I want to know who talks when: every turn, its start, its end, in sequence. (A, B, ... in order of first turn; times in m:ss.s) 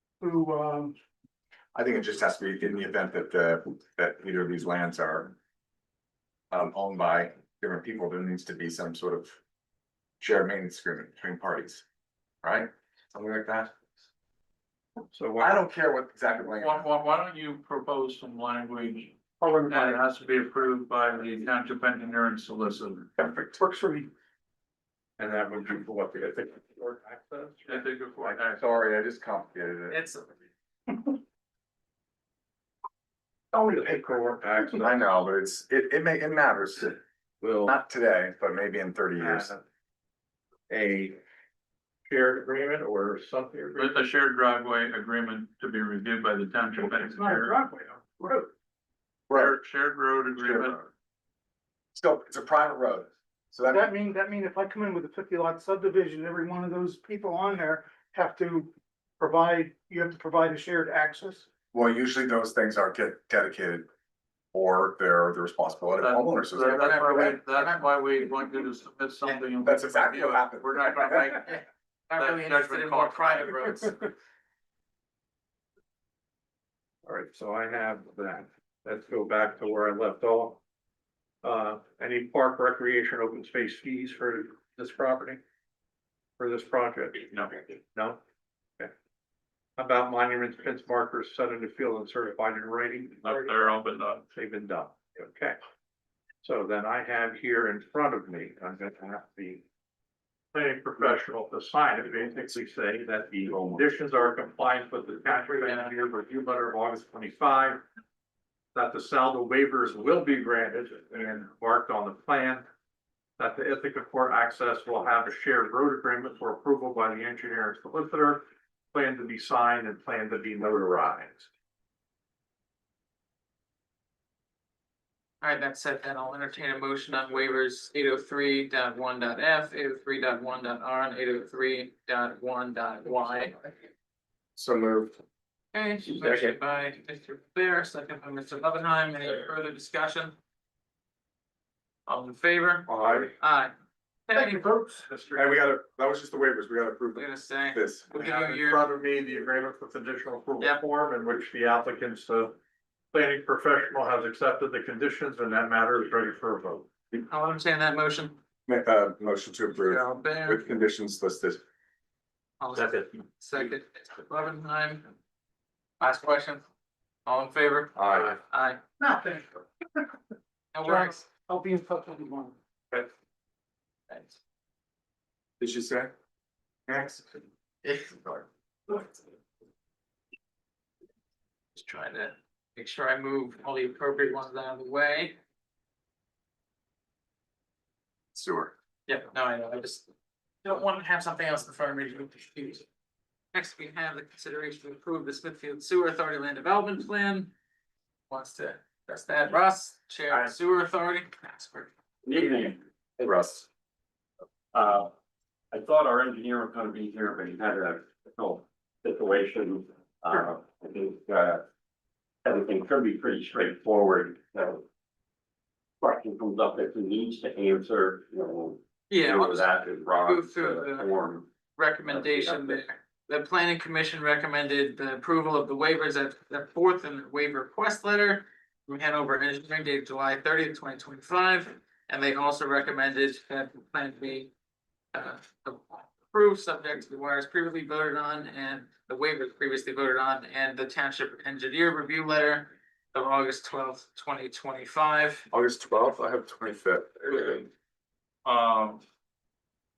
0:00.2-0:01.0 A
0:01.7-0:05.4 B
0:06.5-0:09.4 B
0:10.2-0:11.8 B
0:12.4-0:13.7 B
0:15.1-0:15.6 C
0:15.4-0:16.9 B
0:16.6-0:19.2 D
0:19.5-0:20.0 C
0:19.7-0:23.1 D
0:23.5-0:24.1 A
0:25.2-0:27.8 C
0:27.7-0:28.6 D
0:28.2-0:30.0 B
0:29.9-0:30.3 E
0:33.5-0:34.9 A
0:33.9-0:37.0 B
0:37.6-0:39.5 B
0:39.2-0:39.6 C
0:40.7-0:41.2 C
0:42.1-0:44.0 C
0:43.8-0:47.6 D
0:47.0-0:48.5 A
0:49.3-0:49.6 B
0:49.3-0:50.9 D
0:50.4-0:50.8 B
0:52.0-0:53.9 B
0:53.7-1:01.5 A
1:01.7-1:03.9 B
1:04.5-1:07.3 B
1:06.0-1:11.5 D
1:06.6-1:07.9 E
1:09.6-1:11.4 B
1:11.4-1:14.0 E
1:12.1-1:13.6 D
1:17.0-1:20.6 C
1:21.4-1:25.4 C
1:26.4-1:28.2 C
1:27.3-1:27.6 D
1:29.8-1:33.6 C
1:33.2-1:34.2 D
1:34.3-1:35.6 C
1:36.4-1:39.6 C
1:40.5-1:47.8 C
1:45.6-1:45.9 E
1:48.7-1:52.7 C
1:53.4-2:01.5 C
2:05.4-2:13.6 E
2:14.6-2:15.2 B
2:15.7-2:20.4 E
2:16.2-2:16.6 B
2:22.1-2:23.7 E
2:22.9-2:23.3 B
2:24.3-2:24.7 E
2:24.6-2:25.0 A
2:25.0-2:25.6 C
2:25.4-2:28.1 B
2:27.2-2:28.8 E
2:28.1-2:32.6 C
2:30.6-2:30.8 E
2:33.1-2:36.9 C
2:37.3-2:38.4 E
2:38.7-2:41.6 B
2:39.9-2:40.6 E
2:42.6-2:45.1 E
2:46.0-2:46.6 E
2:47.3-2:48.8 E
2:48.0-2:48.4 B
2:49.0-2:49.6 A
2:50.7-2:51.2 E
2:50.8-2:52.6 A
2:54.1-2:54.4 E
2:55.6-2:56.1 B
2:56.9-2:57.2 B
2:57.8-2:58.2 E
3:01.8-3:05.4 E
3:08.4-3:08.7 B
3:09.1-3:10.1 E
3:10.6-3:12.9 E
3:13.5-3:17.5 E
3:18.3-3:21.9 E
3:22.2-3:23.4 F
3:23.2-3:23.7 B
3:24.7-3:25.1 F
3:25.7-3:31.6 F
3:32.4-3:34.9 F
3:36.0-3:41.5 F
3:39.1-3:41.1 E
3:41.7-3:54.5 E
3:42.1-3:42.8 F
3:55.1-4:05.5 E
4:05.5-4:07.7 B
4:08.4-4:09.0 D